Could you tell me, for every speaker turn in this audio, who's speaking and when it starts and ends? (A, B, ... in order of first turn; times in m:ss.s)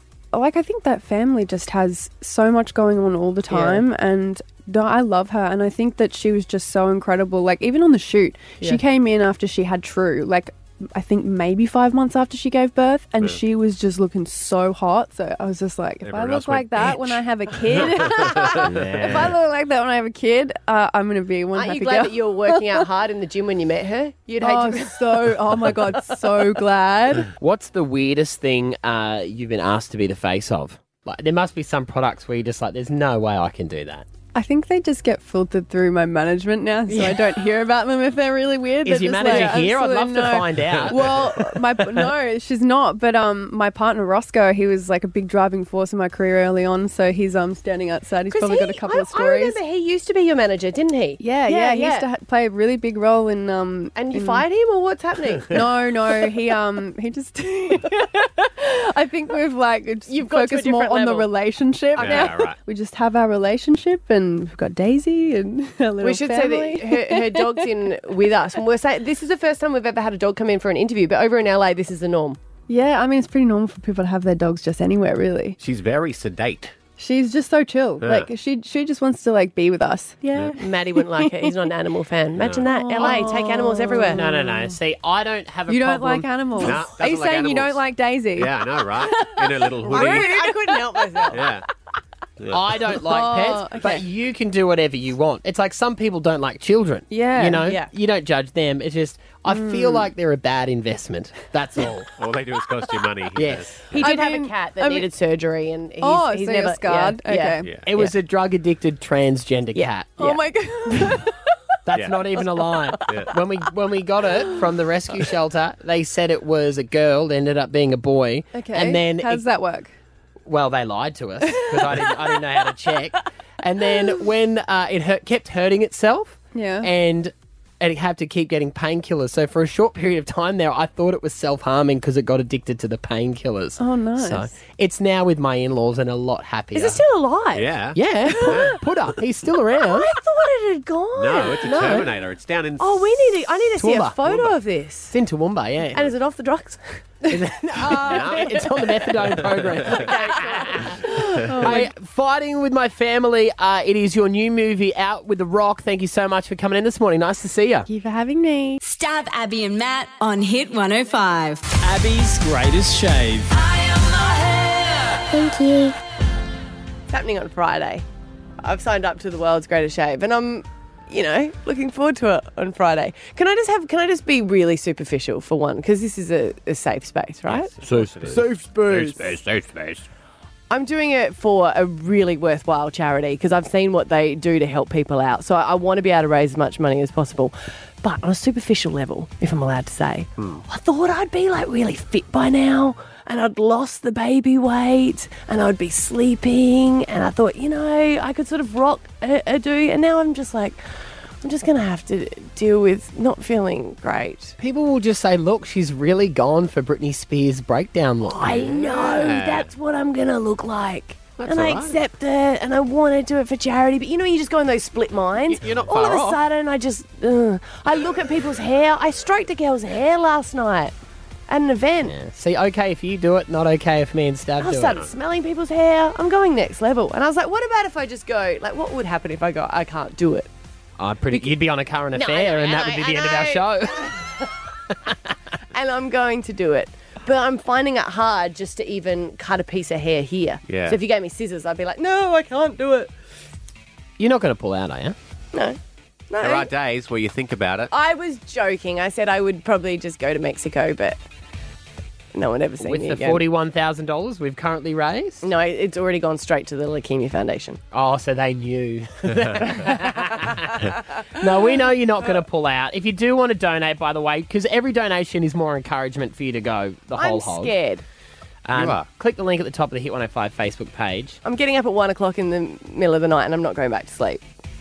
0:00.3-0:22.9 A
0:03.5-0:03.8 B
0:16.0-0:19.3 C
0:18.6-0:19.4 D
0:21.5-0:26.2 B
0:24.4-0:27.3 A
0:27.4-0:34.1 D
0:34.3-0:49.6 A
0:38.8-0:41.1 D
0:39.2-0:39.7 B
0:40.7-0:41.4 C
0:48.3-0:52.1 B
0:51.2-0:54.5 A
0:54.0-0:55.6 B
0:55.5-1:07.9 A
1:00.1-1:01.3 B
1:02.0-1:02.6 C
1:02.0-1:02.3 B
1:06.0-1:12.4 B
1:12.7-1:15.6 A
1:15.6-1:16.8 C
1:17.0-1:21.7 A
1:18.0-1:18.3 C
1:20.2-1:24.2 B
1:22.4-1:22.6 C
1:22.6-1:24.8 A
1:23.0-1:23.3 D
1:24.1-1:26.3 D
1:25.7-1:31.3 A
1:26.6-1:30.5 C
1:29.8-1:31.5 B
1:31.3-1:31.6 C
1:32.4-1:32.8 C
1:32.5-1:42.1 D
1:33.0-1:34.0 A
1:37.1-1:37.8 A
1:37.6-1:37.9 B
1:39.5-1:40.1 A
1:42.1-1:44.1 C
1:43.4-1:43.9 D
1:44.0-1:45.1 A
1:44.0-1:47.6 B
1:46.0-1:47.7 A
1:47.8-1:50.4 D
1:49.8-1:50.4 B
1:50.2-1:51.4 A
1:51.9-1:59.4 D
1:52.0-1:52.2 C
1:58.5-1:59.9 A
2:00.5-2:17.0 D
2:01.6-2:02.2 A
2:06.5-2:06.9 A
2:13.8-2:14.5 A
2:16.7-2:17.8 B
2:17.6-2:18.8 C
2:17.9-2:20.1 D
2:19.8-2:22.1 B
2:21.2-2:23.2 C
2:21.6-2:22.1 D
2:22.8-2:25.1 B
2:23.8-2:24.5 D
2:25.1-2:26.1 D
2:25.9-2:27.1 B
2:27.3-2:37.9 D
2:27.9-2:28.3 B
2:28.0-2:28.5 C
2:29.9-2:30.9 B
2:31.5-2:31.9 A
2:37.9-2:38.8 A
2:38.8-2:41.6 E
2:41.8-2:43.5 D
2:47.1-2:48.0 B
2:48.6-2:57.7 B
2:57.5-2:58.5 C
2:57.9-2:59.6 D
2:59.0-2:59.3 B
3:00.7-3:20.8 B
3:21.4-3:24.6 B
3:24.6-3:28.7 D
3:28.3-3:40.9 B
3:28.5-3:29.7 C
3:31.4-3:32.0 C
3:35.5-3:36.4 C
3:41.5-3:42.1 B
3:42.0-3:45.0 D
3:44.6-3:50.5 B
3:51.0-3:54.2 D
3:52.2-3:54.3 B
3:55.7-4:03.1 B
4:00.7-4:01.0 C
4:04.2-4:05.2 D
4:06.3-4:06.7 B
4:06.4-4:07.9 C
4:07.9-4:11.2 B
4:12.3-4:13.4 B
4:12.8-4:15.5 D
4:15.4-4:17.8 B
4:17.9-4:27.7 D
4:27.2-4:28.0 B
4:28.7-4:31.4 D
4:28.7-4:29.1 C
4:31.4-4:34.4 B